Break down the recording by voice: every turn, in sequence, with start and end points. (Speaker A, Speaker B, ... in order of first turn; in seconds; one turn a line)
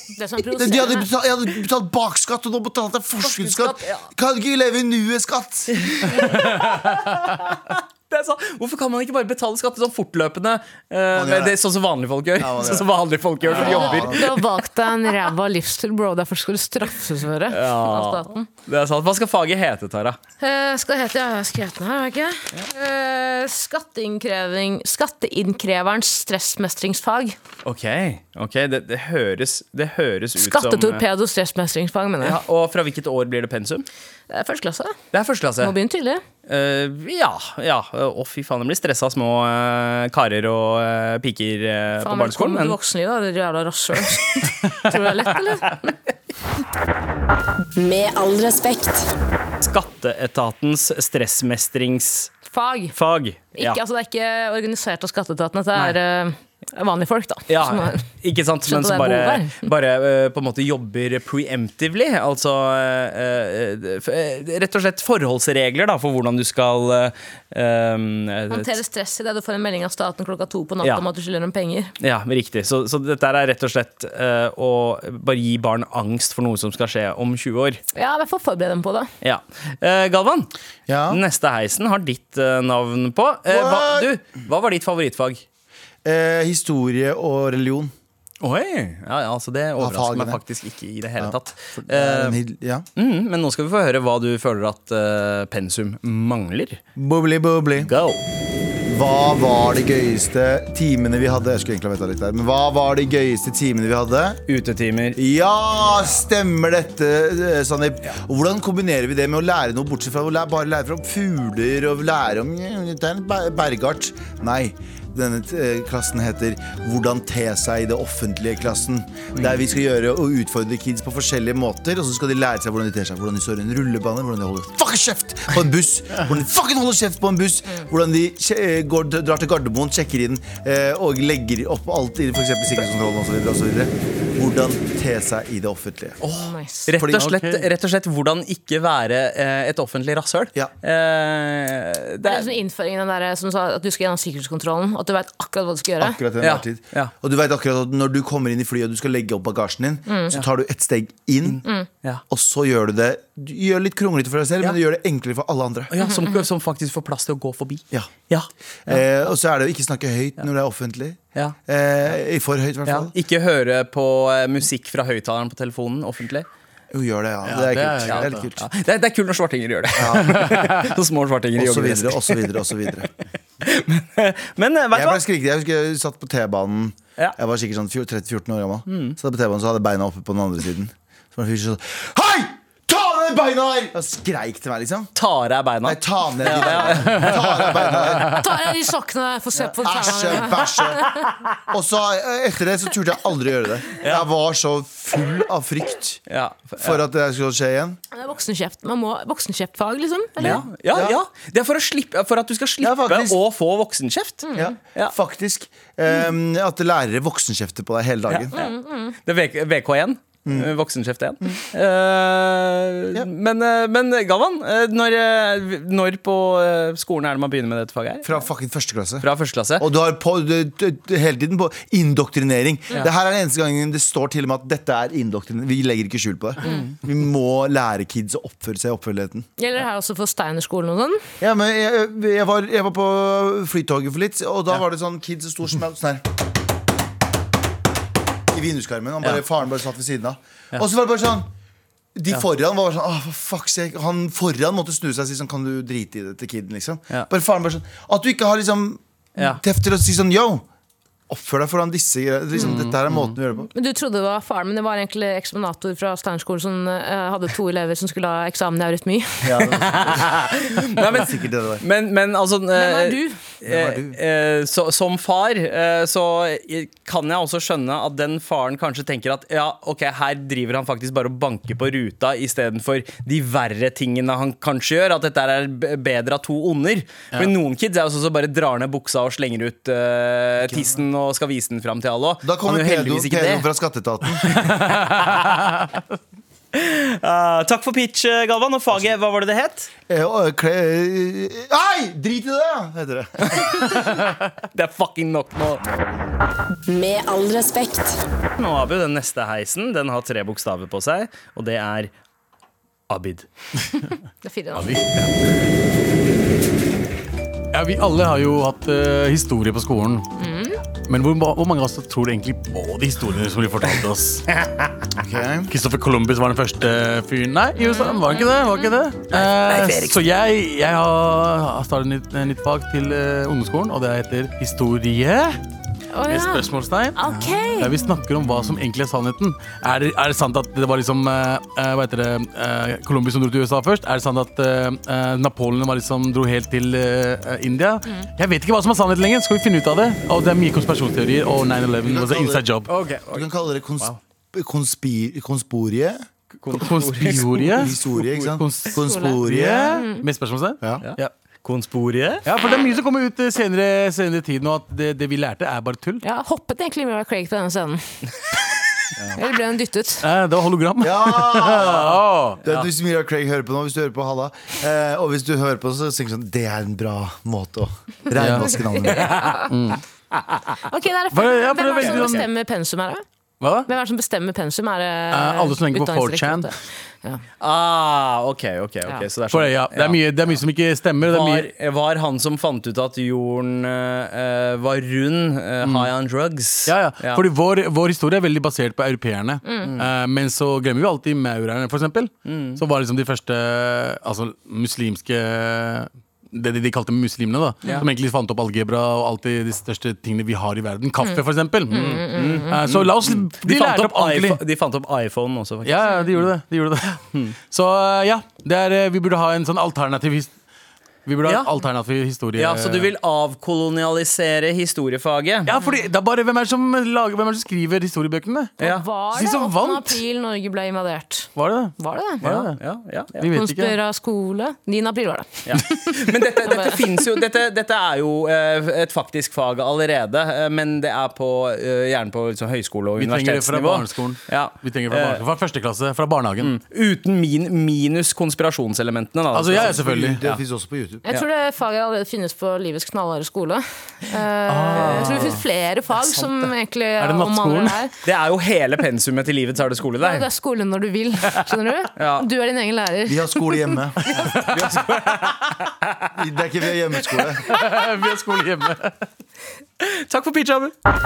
Speaker A: 0.1-1.1
Speaker B: 0.6-5.9
Speaker C: 3.2-4.1
Speaker C: 5.7-14.4
Speaker B: 11.1-11.6
Speaker B: 12.4-12.9
Speaker B: 13.5-14.3
Speaker A: 13.6-18.5
Speaker C: 17.5-20.2
Speaker A: 20.4-27.4
Speaker C: 27.6-31.0
Speaker A: 30.4-32.4
Speaker C: 32.2-33.9
Speaker A: 34.3-35.0
Speaker C: 35.1-35.8
Speaker A: 35.6-36.2
Speaker C: 36.5-42.8
Speaker A: 42.0-46.0
Speaker D: 47.8-49.1
Speaker C: 49.6-52.3
Speaker A: 52.5-52.9
Speaker C: 53.0-53.8
Speaker A: 53.6-58.0
Speaker C: 57.5-68.8
Speaker A: 58.6-59.7
Speaker A: 68.5-71.9
Speaker C: 72.0-77.8
Speaker A: 78.0-79.1
Speaker C: 79.2-80.5
Speaker B: 80.9-81.2
Speaker C: 81.1-85.4
Speaker B: 83.5-84.1
Speaker B: 86.0-87.9
Speaker C: 88.4-92.4
Speaker B: 89.8-90.4
Speaker B: 91.2-92.8
Speaker C: 93.0-96.8
Speaker B: 97.0-97.9
Speaker C: 97.8-98.2
Speaker B: 98.9-104.4
Speaker C: 104.5-105.2
Speaker B: 105.2-136.2
Speaker C: 136.2-142.5
Speaker A: 136.3-136.9
Speaker B: 137.0-137.3
Speaker E: 137.2-137.7
Speaker A: 142.2-146.2
Speaker B: 146.0-151.6
Speaker C: 146.4-147.1
Speaker B: 152.3-155.9
Speaker C: 155.9-159.0
Speaker A: 156.0-156.4
Speaker B: 158.9-163.1
Speaker C: 162.9-166.5
Speaker B: 166.9-168.6
Speaker E: 167.5-168.5
Speaker C: 168.0-173.1
Speaker B: 170.0-170.5
Speaker E: 170.3-170.7
Speaker B: 171.6-173.1
Speaker C: 173.6-175.2
Speaker B: 174.9-185.1
Speaker C: 178.9-179.2
Speaker C: 185.2-187.7
Speaker B: 185.8-188.4
Speaker A: 188.3-191.2
Speaker B: 189.7-191.1
Speaker B: 191.7-196.2
Speaker C: 194.0-194.2
Speaker C: 196.3-197.0
Speaker B: 196.8-198.0
Speaker A: 198.1-200.6
Speaker C: 200.4-205.1
Speaker B: 200.4-201.2
Speaker B: 202.8-203.4
Speaker A: 204.4-204.7
Speaker B: 204.5-208.5
Speaker C: 208.3-218.4
Speaker A: 208.5-209.1
Speaker B: 210.5-210.7
Speaker B: 218.2-219.3
Speaker C: 219.2-219.8
Speaker B: 219.8-229.5
Speaker A: 229.6-231.2
Speaker B: 231.4-236.3
Speaker B: 238.5-241.5
Speaker B: 242.2-250.7
Speaker C: 249.4-249.6
Speaker B: 251.3-253.7
Speaker E: 252.6-252.9
Speaker A: 253.7-259.6
Speaker B: 259.4-261.8
Speaker C: 259.8-283.6
Speaker A: 262.7-263.4
Speaker B: 263.6-264.2
Speaker B: 280.6-280.9
Speaker B: 282.4-284.6
Speaker C: 284.4-285.6
Speaker E: 284.8-285.4
Speaker C: 286.7-289.9
Speaker B: 290.1-293.6
Speaker C: 293.4-295.8
Speaker D: 296.9-298.2
Speaker C: 298.6-302.1
Speaker C: 303.1-303.4
Speaker A: 304.4-304.9
Speaker E: 304.8-305.1
Speaker E: 307.7-310.3
Speaker A: 310.4-310.8
Speaker E: 311.1-314.4
Speaker B: 315.2-315.7
Speaker E: 315.7-325.6
Speaker A: 317.8-318.9
Speaker C: 319.4-320.1
Speaker A: 326.1-328.1
Speaker E: 326.3-342.9
Speaker B: 342.0-342.6
Speaker C: 342.9-344.2
Speaker B: 343.3-346.2
Speaker C: 346.6-347.9
Speaker E: 346.7-351.3
Speaker B: 347.7-350.0
Speaker A: 349.0-349.4
Speaker A: 349.9-350.2
Speaker C: 351.0-352.4
Speaker E: 352.4-356.2
Speaker A: 356.2-358.2
Speaker A: 359.4-360.3
Speaker E: 360.2-362.6
Speaker B: 361.0-362.1
Speaker B: 362.6-369.3
Speaker E: 368.3-368.7
Speaker A: 369.1-369.6
Speaker E: 369.7-370.0
Speaker A: 370.9-373.2
Speaker E: 371.3-372.4
Speaker C: 372.0-372.4
Speaker E: 373.6-373.9
Speaker A: 373.9-376.7
Speaker E: 375.3-376.7
Speaker C: 377.6-380.6
Speaker E: 379.5-381.7
Speaker C: 381.3-387.4
Speaker E: 385.8-386.1
Speaker E: 386.9-404.6
Speaker A: 389.6-389.9
Speaker C: 392.4-392.8
Speaker A: 401.2-402.7
Speaker C: 402.3-406.5
Speaker E: 405.8-407.2
Speaker A: 406.1-406.3
Speaker E: 407.7-410.5
Speaker E: 411.3-413.1
Speaker C: 412.6-415.7
Speaker E: 415.6-418.7
Speaker A: 418.8-422.4
Speaker E: 419.3-420.2
Speaker E: 421.6-422.8
Speaker C: 422.4-423.4
Speaker E: 423.4-424.0
Speaker A: 423.5-426.1
Speaker C: 425.6-435.4
Speaker A: 426.6-427.4
Speaker E: 433.2-436.8
Speaker C: 436.6-440.0
Speaker E: 439.5-440.6
Speaker B: 439.8-441.2
Speaker A: 441.3-448.1
Speaker E: 444.7-445.6
Speaker C: 444.9-445.6
Speaker C: 446.2-446.7
Speaker E: 447.2-448.0
Speaker C: 448.2-450.4
Speaker A: 450.2-454.4
Speaker C: 452.2-452.5
Speaker B: 453.3-455.1
Speaker E: 454.3-454.9
Speaker C: 455.1-456.3
Speaker B: 456.3-457.7
Speaker E: 457.6-459.1
Speaker C: 460.0-460.9